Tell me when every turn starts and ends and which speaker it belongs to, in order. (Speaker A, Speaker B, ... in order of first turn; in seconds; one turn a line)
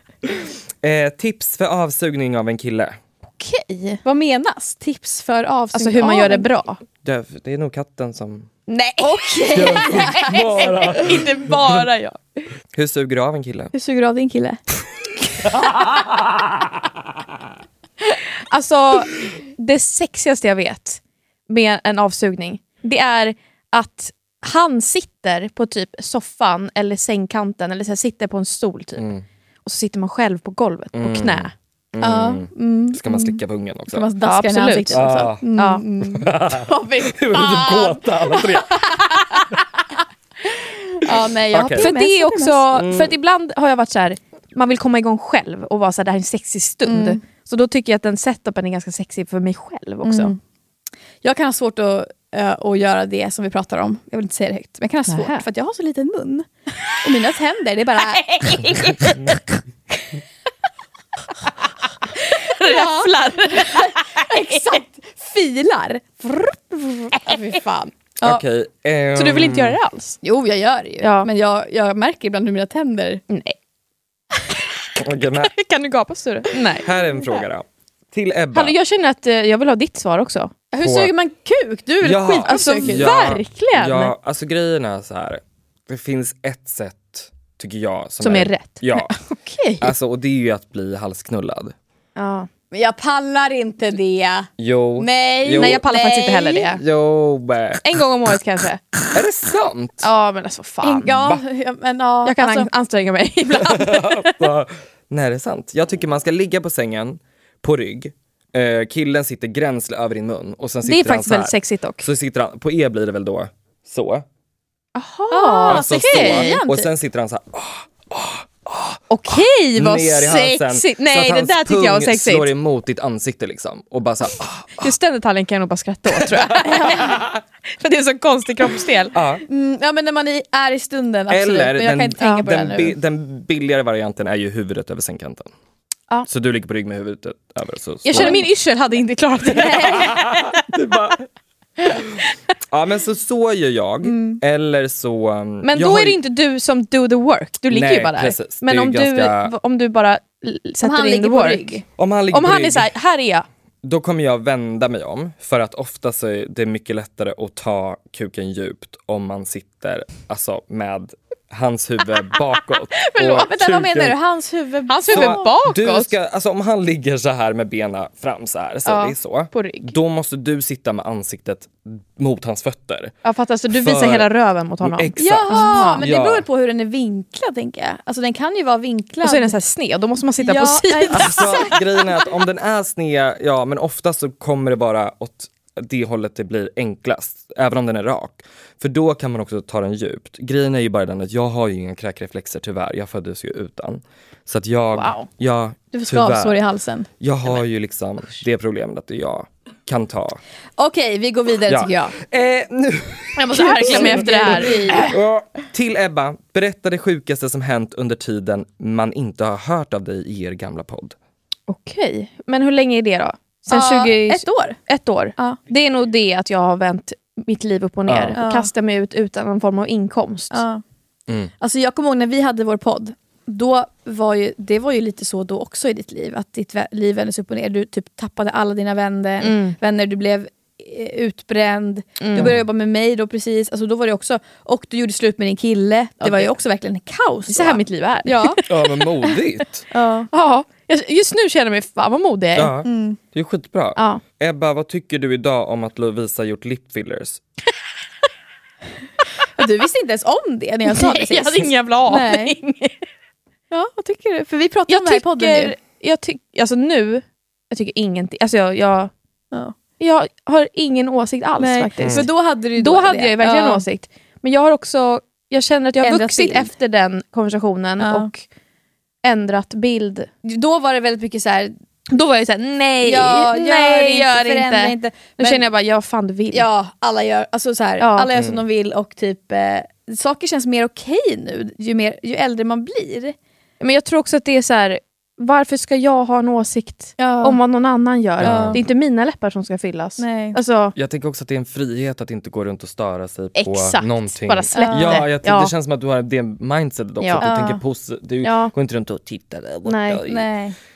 Speaker A: 0.8-3.0
Speaker B: 3.4-4.0
Speaker C: 4.0-6.5
Speaker B: 5.7-6.8
Speaker A: 7.0-8.5
Speaker B: 8.7-12.4
Speaker C: 9.0-10.8
Speaker A: 9.5-11.8
Speaker A: 12.7-13.7
Speaker C: 13.7-14.6
Speaker B: 18.5-29.1
Speaker A: 29.0-29.2
Speaker B: 29.6-31.5
Speaker A: 30.9-34.1
Speaker C: 32.0-33.4
Speaker C: 33.9-39.6
Speaker B: 34.2-35.8
Speaker A: 34.9-35.5
Speaker A: 36.0-39.1
Speaker C: 40.9-42.7
Speaker A: 41.5-41.9
Speaker B: 41.8-50.3
Speaker A: 42.7-43.1
Speaker C: 46.8-47.2
Speaker C: 50.0-50.4
Speaker C: 51.2-59.4
Speaker B: 55.1-55.5
Speaker B: 62.3-64.6
Speaker C: 62.6-68.4
Speaker A: 68.2-69.8
Speaker B: 69.1-70.2
Speaker C: 70.2-73.2
Speaker B: 71.0-71.3
Speaker B: 73.3-73.5
Speaker A: 75.0-75.5
Speaker B: 75.5-76.8
Speaker A: 76.8-78.7
Speaker B: 78.5-80.5
Speaker C: 80.7-83.3
Speaker A: 80.8-81.1
Speaker A: 82.0-89.1
Speaker B: 82.5-84.1
Speaker B: 88.2-89.1
Speaker C: 89.4-89.8
Speaker A: 89.8-91.7
Speaker B: 92.2-92.5
Speaker C: 92.7-96.7
Speaker A: 94.6-95.8
Speaker B: 95.6-96.8
Speaker A: 96.8-97.8
Speaker B: 97.8-98.8
Speaker A: 99.1-100.1
Speaker B: 100.0-101.2
Speaker C: 100.8-102.7
Speaker A: 101.0-101.4
Speaker B: 102.2-104.5
Speaker A: 103.6-114.2
Speaker B: 110.8-112.1
Speaker B: 114.9-116.6
Speaker C: 115.3-116.9
Speaker A: 115.7-124.9
Speaker B: 119.1-122.5
Speaker B: 124.8-127.2
Speaker C: 126.6-127.1
Speaker A: 127.0-127.3
Speaker B: 127.8-129.1
Speaker A: 129.1-129.4
Speaker C: 129.5-132.9
Speaker A: 131.3-135.5
Speaker B: 132.2-132.4
Speaker A: 136.3-138.4
Speaker B: 138.0-140.5
Speaker C: 138.1-138.4
Speaker C: 139.5-140.2
Speaker A: 140.0-141.3
Speaker A: 141.8-142.2
Speaker A: 142.7-146.2
Speaker C: 144.0-144.4
Speaker B: 145.6-153.4
Speaker A: 147.7-149.5
Speaker C: 150.8-151.8
Speaker A: 152.0-152.9
Speaker A: 153.8-164.2
Speaker C: 163.0-165.5
Speaker B: 164.9-166.1
Speaker A: 165.1-173.1
Speaker B: 168.8-169.9
Speaker B: 173.2-176.0
Speaker A: 173.7-174.3
Speaker A: 174.8-176.4
Speaker C: 175.2-179.6
Speaker B: 179.2-181.7
Speaker C: 180.4-182.0
Speaker A: 181.1-196.6
Speaker B: 194.9-195.3
Speaker C: 195.9-197.1
Speaker A: 197.2-200.4
Speaker C: 200.8-202.2
Speaker A: 201.7-211.1
Speaker B: 203.3-205.0
Speaker C: 203.5-205.1
Speaker B: 211.7-220.6
Speaker C: 213.7-214.8
Speaker A: 218.1-218.3
Speaker C: 218.3-218.7
Speaker C: 220.5-220.8
Speaker C: 221.6-238.6
Speaker B: 229.4-229.8
Speaker B: 232.2-232.5
Speaker A: 232.3-232.6
Speaker A: 236.2-236.5
Speaker B: 237.5-238.9
Speaker A: 238.7-239.8
Speaker C: 239.9-240.3
Speaker B: 240.3-242.7
Speaker A: 242.5-247.4
Speaker C: 242.8-243.2
Speaker B: 243.9-244.2
Speaker C: 249.6-252.6
Speaker B: 250.9-253.0
Speaker C: 253.7-255.7
Speaker B: 254.9-259.1
Speaker B: 260.0-268.4
Speaker C: 261.6-263.8
Speaker A: 262.0-262.3
Speaker C: 266.0-266.7
Speaker C: 268.0-268.3
Speaker B: 269.2-270.3
Speaker C: 270.4-271.7
Speaker B: 272.1-276.7
Speaker C: 273.0-275.6
Speaker C: 276.5-283.4
Speaker B: 278.0-278.3
Speaker A: 278.3-278.6
Speaker B: 283.8-290.9
Speaker C: 287.2-287.6
Speaker A: 288.4-288.8
Speaker C: 288.4-288.8
Speaker C: 290.2-290.6
Speaker A: 290.9-300.5
Speaker B: 293.6-295.7
Speaker C: 294.7-295.2
Speaker B: 297.2-297.5
Speaker C: 297.4-297.8
Speaker B: 298.4-298.7
Speaker B: 299.8-300.2
Speaker C: 300.3-300.8